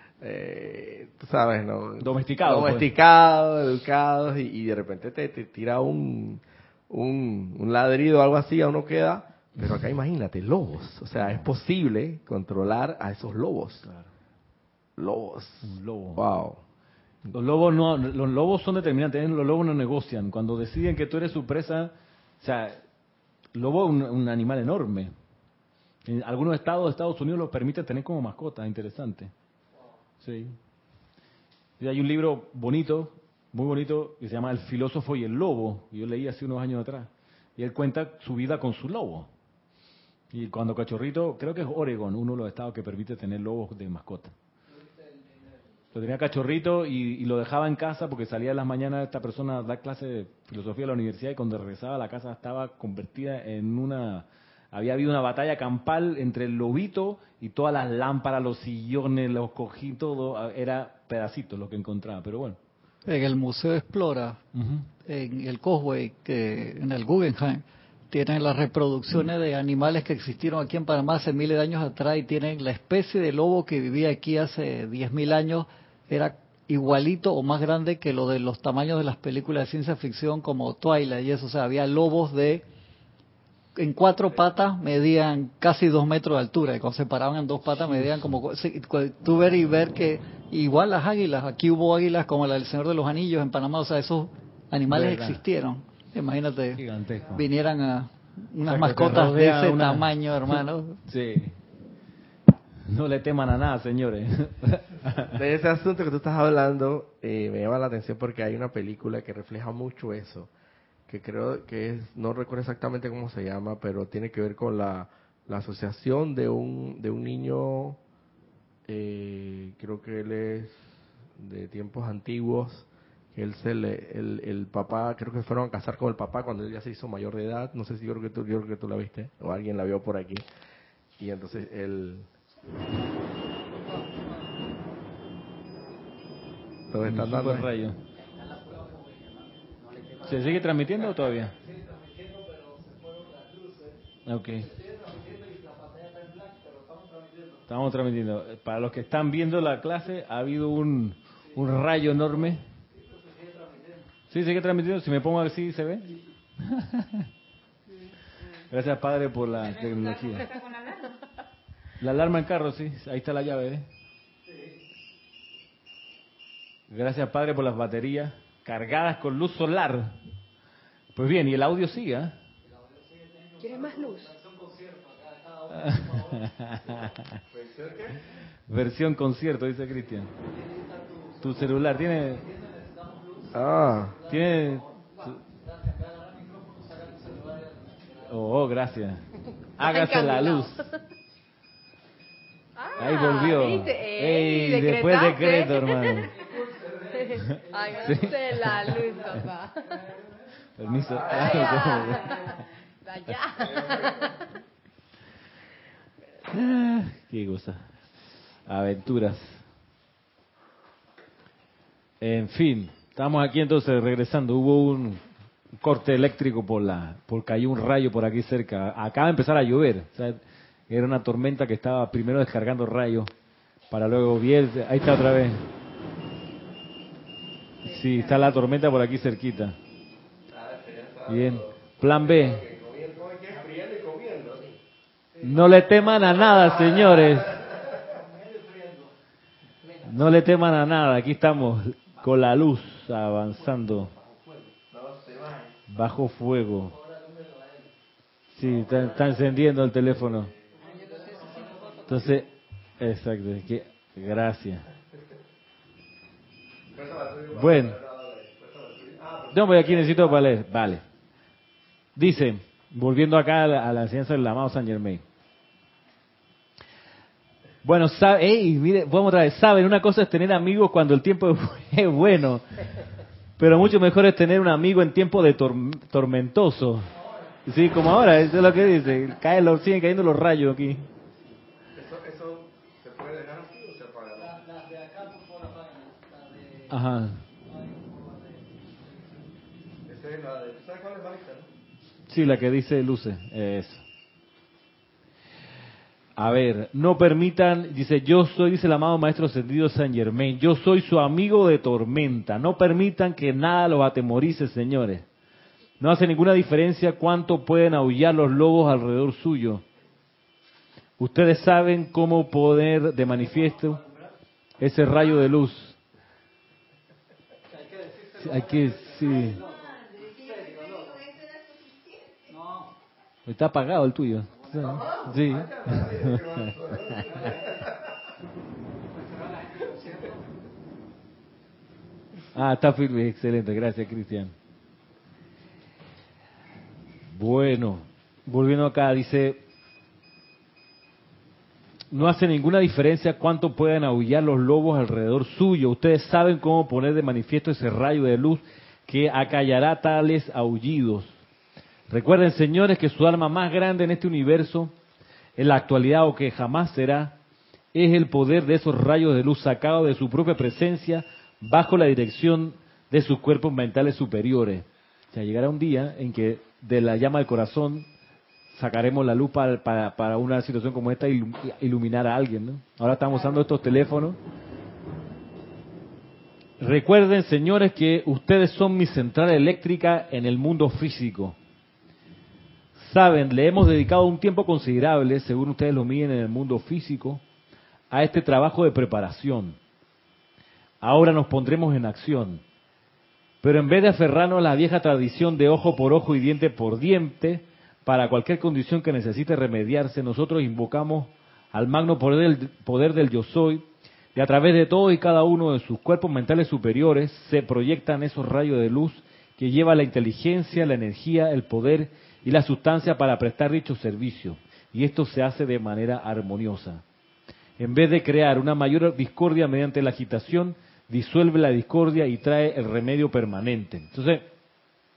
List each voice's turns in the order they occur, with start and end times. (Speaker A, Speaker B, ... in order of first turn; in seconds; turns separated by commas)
Speaker A: 0.2-13.9, Speaker B: 2.0-2.9, Speaker A: 15.0-16.6, Speaker B: 15.6-16.2, Speaker B: 17.3-22.8, Speaker B: 23.5-25.1, Speaker B: 26.1-29.3, Speaker B: 30.2-30.6, Speaker B: 31.8-39.3, Speaker B: 40.3-44.3, Speaker B: 45.9-62.6, Speaker C: 63.0-64.4, Speaker B: 64.5-64.9, Speaker C: 65.0-82.6, Speaker C: 83.8-101.0, Speaker B: 87.9-88.3, Speaker B: 94.9-95.4, Speaker B: 96.8-97.5, Speaker B: 98.6-101.5, Speaker B: 102.9-105.4, Speaker A: 105.3-110.5, Speaker A: 111.1-118.0, Speaker A: 118.9-120.8, Speaker A: 121.3-130.4, Speaker A: 131.2-132.3, Speaker A: 136.9-137.7, Speaker B: 137.0-138.0, Speaker B: 140.2-141.5, Speaker B: 144.2-144.8, Speaker B: 147.7-152.6, Speaker B: 154.3-157.1, Speaker B: 158.7-160.6, Speaker B: 162.0-163.8, Speaker B: 166.9-170.2, Speaker B: 171.1-172.4, Speaker D: 173.6-174.4, Speaker B: 175.7-177.4, Speaker A: 177.5-178.2, Speaker B: 178.7-180.3, Speaker B: 181.3-182.5, Speaker A: 183.5-184.2, Speaker B: 184.2-185.4, Speaker B: 188.1-189.2, Speaker B: 189.8-190.8, Speaker D: 189.8-190.9, Speaker D: 192.8-200.0, Speaker B: 192.9-196.3, Speaker B: 198.0-198.7, Speaker B: 200.8-202.5, Speaker D: 201.2-204.4, Speaker B: 206.5-207.9, Speaker B: 208.7-209.6, Speaker B: 212.2-215.2, Speaker B: 215.8-223.3, Speaker B: 223.9-225.6, Speaker B: 227.8-229.8, Speaker A: 230.5-234.8, Speaker B: 231.3-232.6, Speaker B: 235.4-237.7, Speaker B: 240.0-244.1, Speaker A: 244.9-245.7, Speaker B: 245.9-247.0, Speaker B: 248.5-250.5, Speaker B: 252.0-252.5, Speaker B: 253.0-254.9, Speaker A: 256.9-260.3, Speaker B: 257.5-258.0, Speaker B: 259.5-261.0, Speaker B: 262.1-265.2, Speaker B: 267.8-272.6, Speaker B: 273.6-277.1, Speaker B: 277.6-281.1, Speaker A: 281.9-284.8, Speaker B: 286.9-287.4, Speaker A: 290.1-291.7, Speaker B: 292.3-294.0, Speaker B: 296.4-305.2, Speaker B: 306.0-309.8, Speaker B: 311.2-314.0, Speaker B: 314.8-316.0, Speaker B: 318.3-319.7, Speaker D: 320.1-322.6, Speaker B: 323.4-326.6, Speaker A: 325.1-327.9, Speaker B: 332.5-334.5, Speaker B: 337.3-339.6, Speaker B: 342.1-351.4, Speaker B: 352.1-354.9, Speaker B: 355.6-357.4, Speaker B: 357.9-368.1, Speaker B: 368.7-374.4, Speaker B: 376.8-381.6, Speaker B: 382.9-387.4, Speaker B: 388.1-389.8, Speaker B: 391.0-392.6, Speaker B: 393.6-417.0, Speaker B: 417.8-424.5